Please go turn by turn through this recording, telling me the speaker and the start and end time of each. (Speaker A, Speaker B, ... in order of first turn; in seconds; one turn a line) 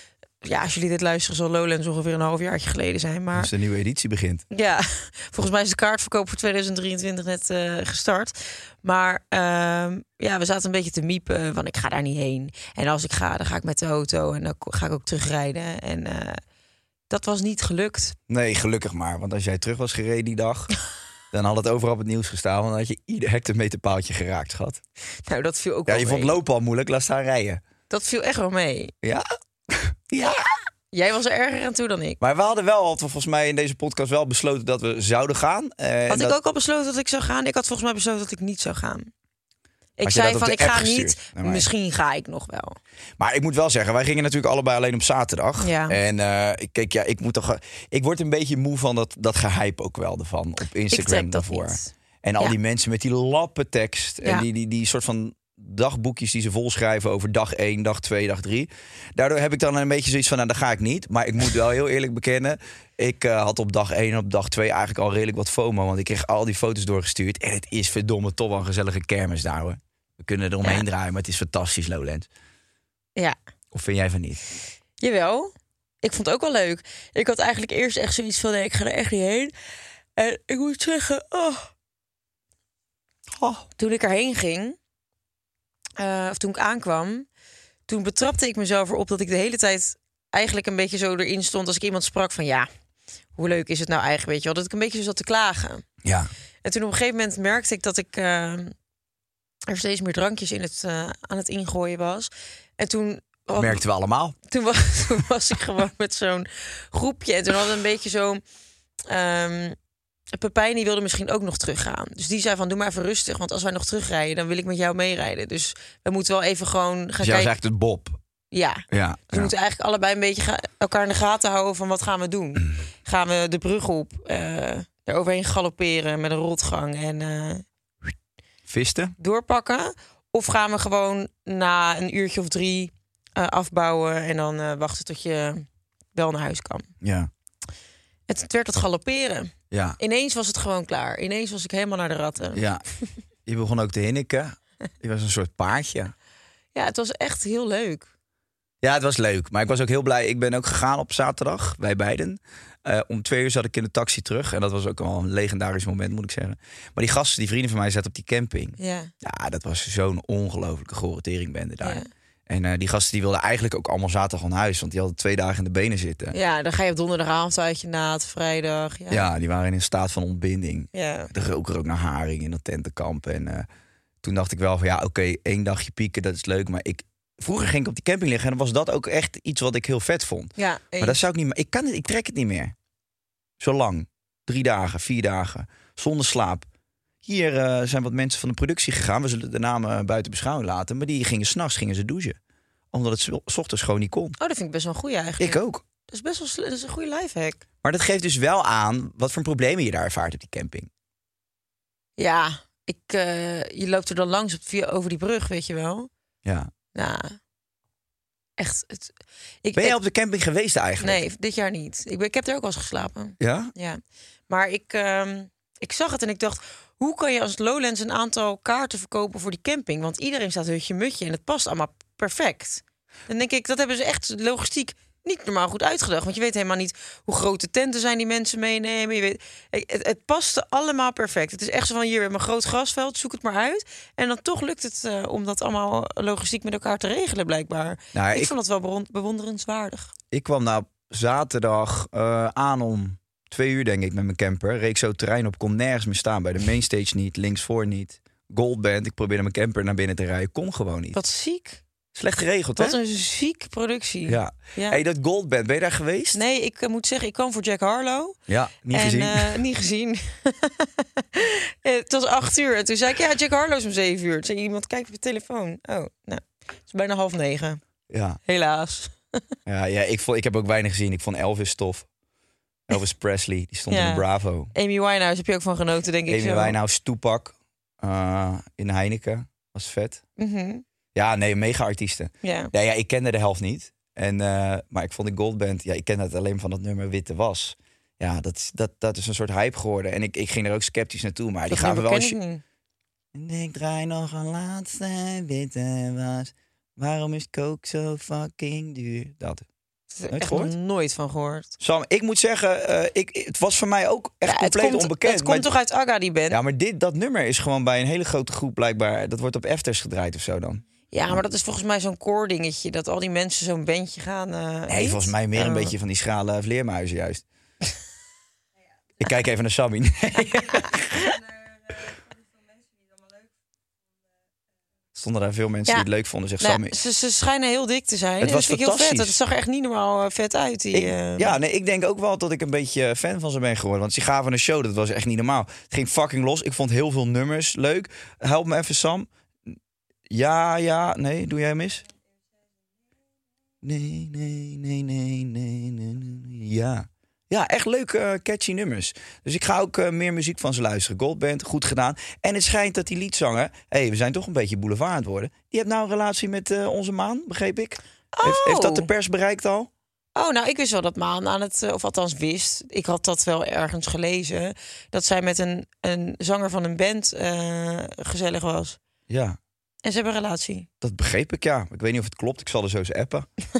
Speaker A: 0.4-3.5
Speaker B: 3.4-4.5
Speaker A: 4.5-16.4
Speaker A: 17.1-18.2
Speaker B: 18.3-20.7
Speaker B: 21.3-24.8
Speaker A: 25.3-26.4
Speaker B: 25.9-27.6
Speaker A: 27.9-28.9
Speaker B: 29.0-30.5
Speaker A: 30.9-32.2
Speaker B: 32.2-36.4
Speaker A: 36.1-39.1
Speaker A: 40.0-42.8
Speaker B: 40.0-41.7
Speaker B: 43.2-72.3
Speaker A: 45.6-46.0
Speaker A: 50.9-52.5
Speaker B: 73.7-74.5
Speaker A: 75.0-75.5
Speaker A: 76.0-79.5
Speaker A: 80.2-81.7
Speaker B: 83.4-83.7
Speaker A: 83.8-84.8
Speaker A: 86.0-87.3
Speaker A: 87.9-92.7
Speaker A: 93.4-95.8
Speaker B: 96.0-96.3
Speaker A: 96.6-98.8
Speaker A: 99.7-103.8
Speaker B: 103.6-104.4
Speaker A: 104.5-108.4
Speaker A: 109.1-109.8
Speaker A: 110.3-117.5
Speaker B: 117.2-118.2
Speaker A: 118.5-127.7
Speaker B: 118.9-119.5
Speaker B: 128.7-129.2
Speaker A: 129.2-136.9
Speaker B: 137.0-137.3
Speaker A: 138.3-142.6
Speaker B: 139.7-140.0
Speaker B: 142.6-142.8
Speaker B: 143.5-146.1
Speaker A: 146.8-148.1
Speaker B: 148.8-166.3
Speaker A: 158.8-159.1
Speaker A: 161.8-162.1
Speaker A: 166.3-169.3
Speaker B: 169.1-173.7
Speaker A: 170.9-171.3
Speaker B: 174.2-182.8
Speaker A: 180.6-181.2
Speaker B: 183.6-186.7
Speaker B: 187.2-192.4
Speaker B: 192.9-194.4
Speaker A: 194.4-197.6
Speaker B: 195.4-195.8
Speaker B: 197.8-200.9
Speaker A: 202.2-206.1
Speaker B: 206.4-206.7
Speaker A: 206.9-207.4
Speaker A: 208.6-210.0
Speaker B: 209.8-211.2
Speaker A: 211.0-240.1
Speaker B: 213.4-213.7
Speaker B: 238.1-238.5
Speaker B: 240.3-251.2
Speaker A: 251.1-251.8
Speaker B: 252.2-253.0
Speaker A: 252.8-255.0
Speaker B: 254.3-256.4
Speaker A: 256.3-258.4
Speaker B: 258.5-259.6
Speaker A: 258.9-267.8
Speaker B: 268.1-268.4
Speaker A: 268.5-269.4
Speaker B: 269.7-272.1
Speaker B: 272.9-274.7
Speaker A: 273.9-276.8
Speaker B: 276.3-280.2
Speaker A: 280.4-280.8
Speaker B: 281.1-292.4
Speaker A: 282.4-282.7
Speaker A: 291.7-292.6
Speaker B: 293.3-299.7
Speaker A: 300.1-301.8
Speaker B: 300.3-300.7
Speaker B: 301.8-305.7
Speaker A: 304.4-306.6
Speaker B: 306.5-311.4
Speaker A: 311.1-315.9
Speaker B: 314.9-317.4
Speaker B: 319.2-321.3
Speaker B: 325.1-326.9
Speaker A: 326.6-331.6
Speaker B: 328.4-329.4
Speaker B: 330.9-339.8
Speaker B: 340.3-342.1
Speaker B: 343.8-359.9
Speaker A: 358.3-359.1
Speaker A: 360.4-369.0
Speaker B: 369.3-369.6
Speaker A: 370.0-370.9
Speaker B: 371.0-373.5